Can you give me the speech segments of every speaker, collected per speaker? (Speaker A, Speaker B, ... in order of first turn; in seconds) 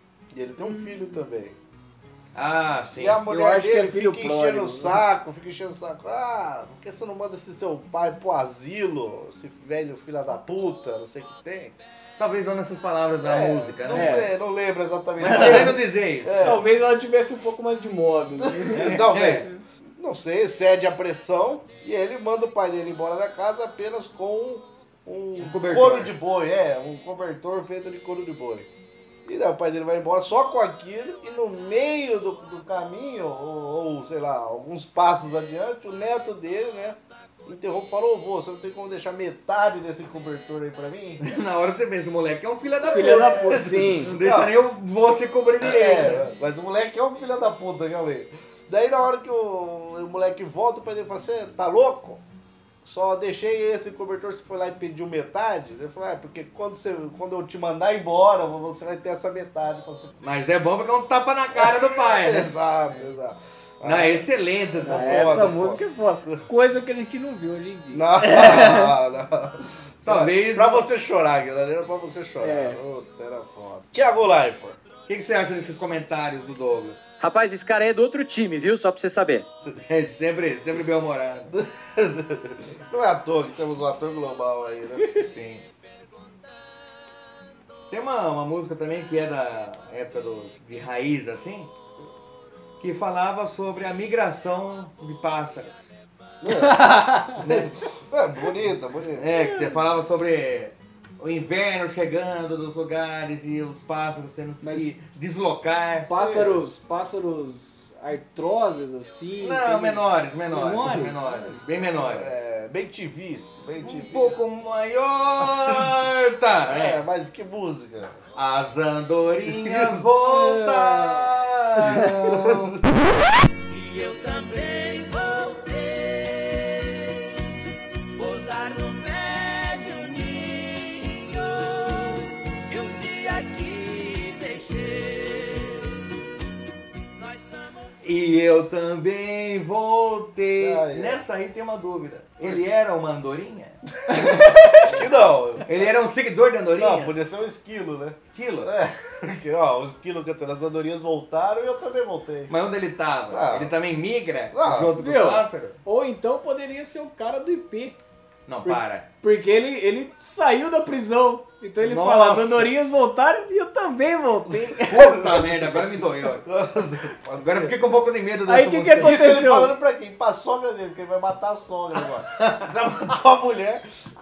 Speaker A: 0.3-1.6, 3.0-11.4, 13.2-16.6, 18.4-28.7, 29.2-41.2, 43.5-44.5, 45.6-52.2, 52.8-60.1, 61.6-66.4, 67.9-74.8, 81.5-85.3, 96.4-99.3, 106.1-106.6, 111.7-114.4, 116.7-118.2, 119.6-119.9, 140.6-141.2, 144.7-145.9, 146.8-152.6, 153.3-153.7, 154.5-154.9, 166.5-167.8, 169.0-173.8
Speaker B: 0.7-0.9, 3.3-5.0, 13.9-14.3, 15.3-15.7, 16.4-19.0, 42.9-44.1, 64.9-69.0, 72.4-72.8, 96.6-97.4, 99.5-99.8, 104.6-104.9, 106.1-111.6, 120.2-121.2, 121.8-122.1, 144.1-144.9, 155.0-158.0, 158.6-165.3, 168.5-169.8
Speaker C: 2.3-3.2, 11.5-14.3, 15.2-16.6, 18.7-19.5, 25.4-26.1, 41.2-46.3, 60.2-62.5, 63.8-65.4, 70.0-70.9, 75.1-77.0, 79.8-81.5, 85.2-85.7, 87.9-91.7, 92.8-95.8, 97.4-97.7, 99.2-106.4, 109.4-112.3, 113.8-117.0, 118.4-122.8, 138.0-143.8, 145.7-147.2, 148.3-148.7, 152.5-155.8, 158.5-159.1, 161.8-162.7, 164.9-166.5, 167.4-169.2, 172.3-172.7
Speaker D: 77.2-79.5
Speaker E: 123.7-126.4, 128.2-131.4, 132.7-135.7